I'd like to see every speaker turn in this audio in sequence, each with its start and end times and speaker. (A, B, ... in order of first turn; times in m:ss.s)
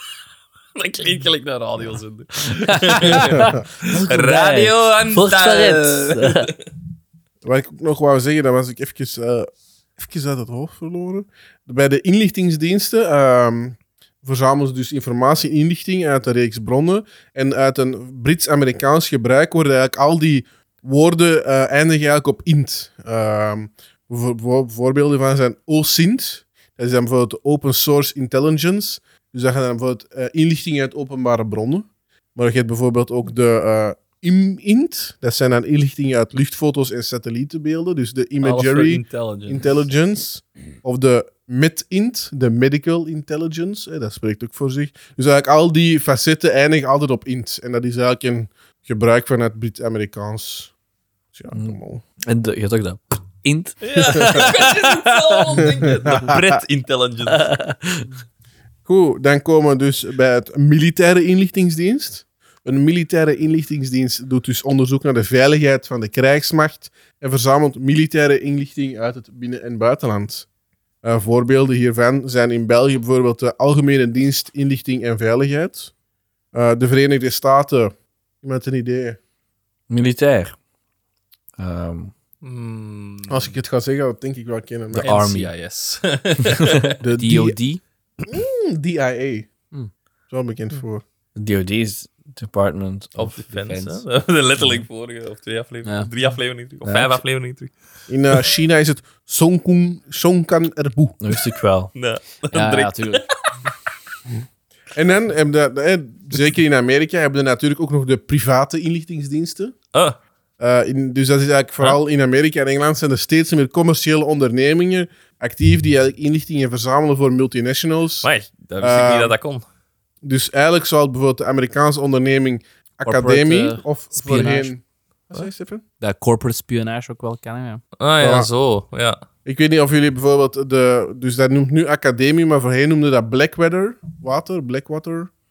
0:00.8-0:06.6 A
0:02.7-0:06.5 B
0:03.2-0:03.6 C
0:07.4-0:50.7 C
0:38.4-0:39.7 A
0:51.3-0:52.0 C
0:51.5-0:55.9 B
0:53.8-0:57.5 A
0:55.6-0:56.6 C
0:57.3-0:58.1 B
0:58.9-1:10.5 C
1:11.0-1:15.9 C
1:16.5-1:19.2 C
1:19.9-1:20.6 B
1:21.6-1:22.1 B
1:22.4-1:23.5 A
1:23.3-1:25.1 C
1:25.0-1:25.5 B
1:25.0-1:27.0 A
1:26.4-1:26.8 B
1:27.0-1:27.6 C
1:27.2-1:27.8 D
1:28.3-1:29.5 C
1:30.3-1:31.0 C
1:31.4-1:33.4 B
1:33.2-1:37.7 A
1:33.5-1:34.0 D
1:36.8-1:37.2 B
1:38.1-1:41.4 C
1:41.2-1:41.9 B
1:42.0-1:43.3 A
1:42.5-1:43.3 D
1:44.9-1:49.8 C
1:50.6-1:58.3 C
1:58.2-1:59.6 A
1:58.8-1:59.4 C
2:00.2-2:05.8 C
2:03.0-2:04.7 D
2:06.0-2:07.8 D
2:08.0-2:09.2 A
2:08.2-2:08.5 C
2:09.5-2:15.3 C